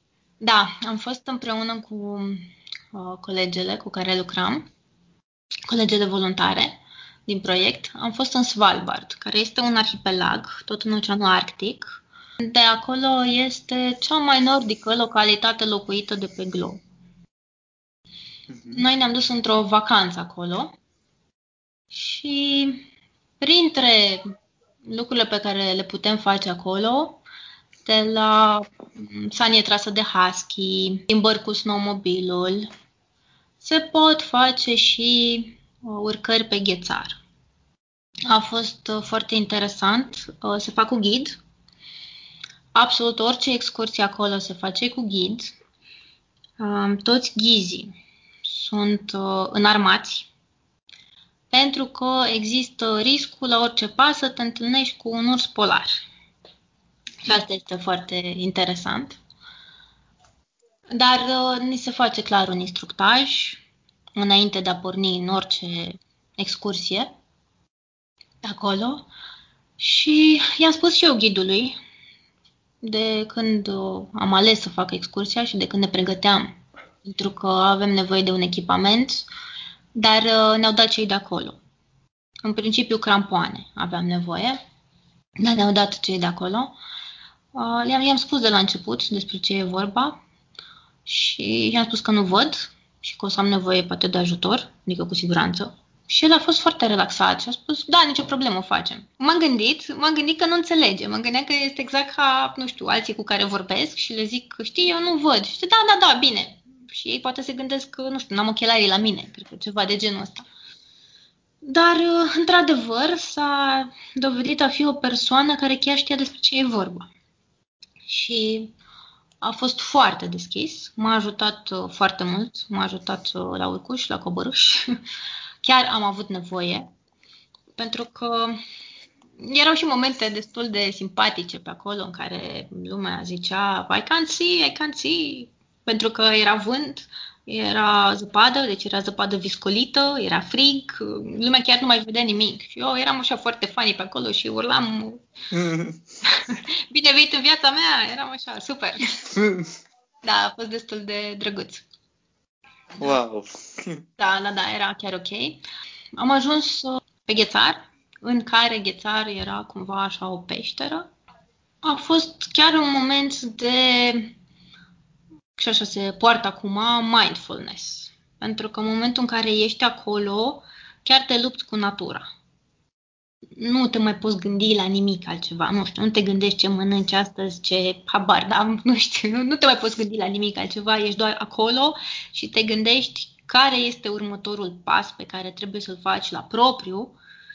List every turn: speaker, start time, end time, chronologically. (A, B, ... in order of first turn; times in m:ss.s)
0:00.4-0:04.7 A
0:05.7-0:16.8 A
0:18.5-0:18.8 B
0:18.7-0:20.7 A
0:21.9-0:22.9 A
0:23.4-0:24.3 A
0:24.8-0:27.2 A
0:27.8-0:32.7 A
0:33.6-0:37.2 A
0:38.3-0:41.4 A
0:42.7-0:45.6 A
0:46.6-0:50.3 A
0:51.5-0:56.0 A
0:57.2-0:59.2 A
1:00.9-1:03.6 A
1:04.1-1:07.1 A
1:08.4-1:09.1 A
1:09.8-1:11.8 A
1:12.8-1:19.3 A
1:19.9-1:21.6 A
1:22.4-1:24.6 A
1:25.4-1:26.8 A
1:27.5-1:30.2 A
1:31.0-1:50.4 A
1:51.6-1:57.1 A
1:58.1-1:58.7 A
1:59.4-2:05.0 A
2:05.6-2:06.9 A
2:07.7-2:08.6 A
2:09.4-2:25.2 A
2:25.5-2:26.0 B
2:26.3-2:29.1 A
2:29.2-2:29.7 B
2:30.2-2:31.8 A
2:33.0-2:34.0 B
2:34.2-2:35.6 A
2:36.2-2:41.1 A
2:41.8-2:44.3 A
2:45.6-2:52.3 A
2:53.6-3:07.2 A